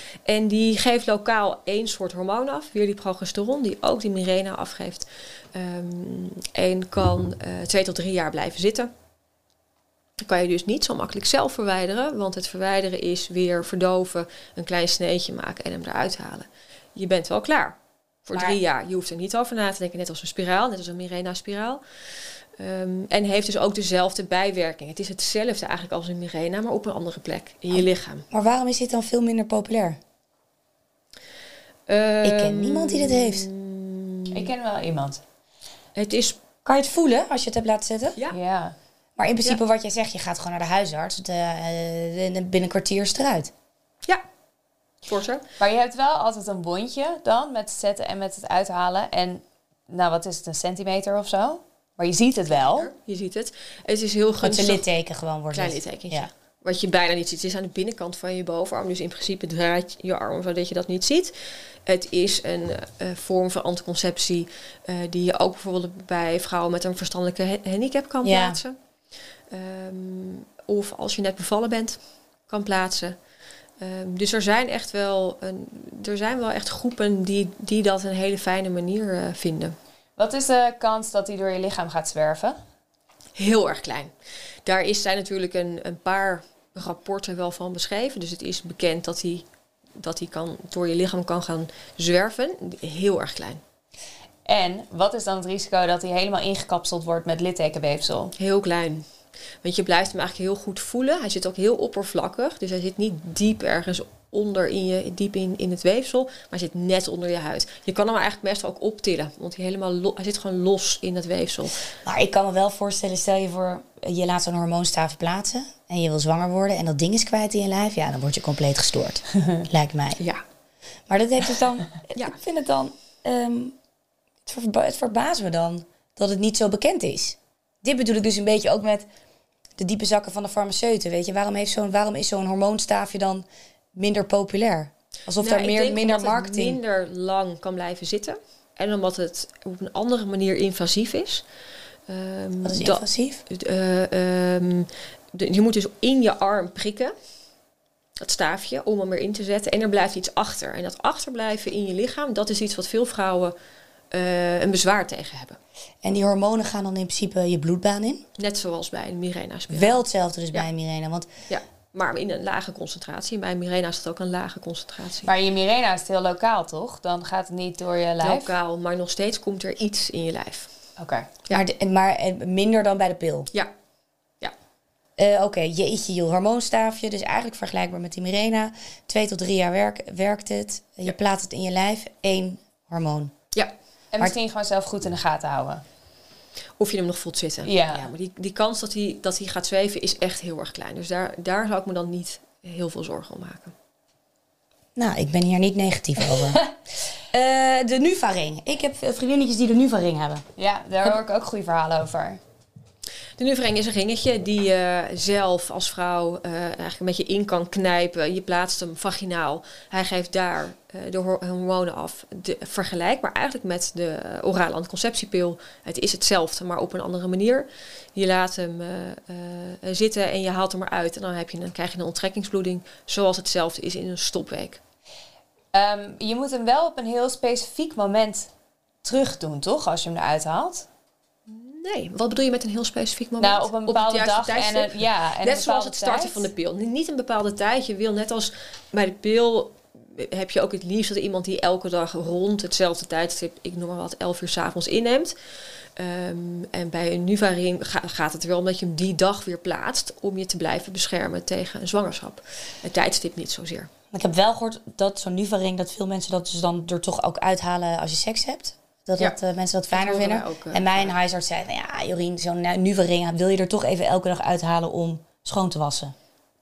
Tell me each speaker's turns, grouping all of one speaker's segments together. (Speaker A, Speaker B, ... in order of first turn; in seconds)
Speaker A: 0.2-8.9, 10.2-21.8, 22.6-28.2, 31.9-34.5, 35.9-36.4, 45.0-45.4, 52.5-54.8, 55.5-61.3, 61.8-68.8, 69.5-73.2, 73.8-79.8, 83.3-84.1, 84.6-89.5, 90.0-93.6, 98.4-99.0, 99.6-111.8, 135.4-141.4, 142.1-147.1, 148.2-153.5, 154.1-155.6, 158.4-160.7, 161.5-165.3, 168.2-170.7, 186.8-193.7, 203.4-224.8, 231.5-245.3, 245.9-253.9, 259.9-261.1
Speaker B: 27.7-30.0, 32.2-33.5, 36.6-38.2, 39.2-43.5, 54.4-56.3, 68.2-68.6, 112.0-120.2, 121.1-123.8, 124.5-129.1, 129.8-136.8, 142.6-143.4, 156.0-158.2, 159.7-161.3, 171.5-173.5, 175.2-183.3, 194.9-196.6, 197.3-200.4, 254.1-266.1
Speaker C: 34.3-35.2, 38.3-38.8, 45.6-52.9, 80.2-82.6, 94.5-98.3, 165.2-168.5, 171.0-171.3, 184.1-185.8, 187.6-188.1, 200.6-202.4, 225.7-228.5, 229.0-230.9, 233.4-236.5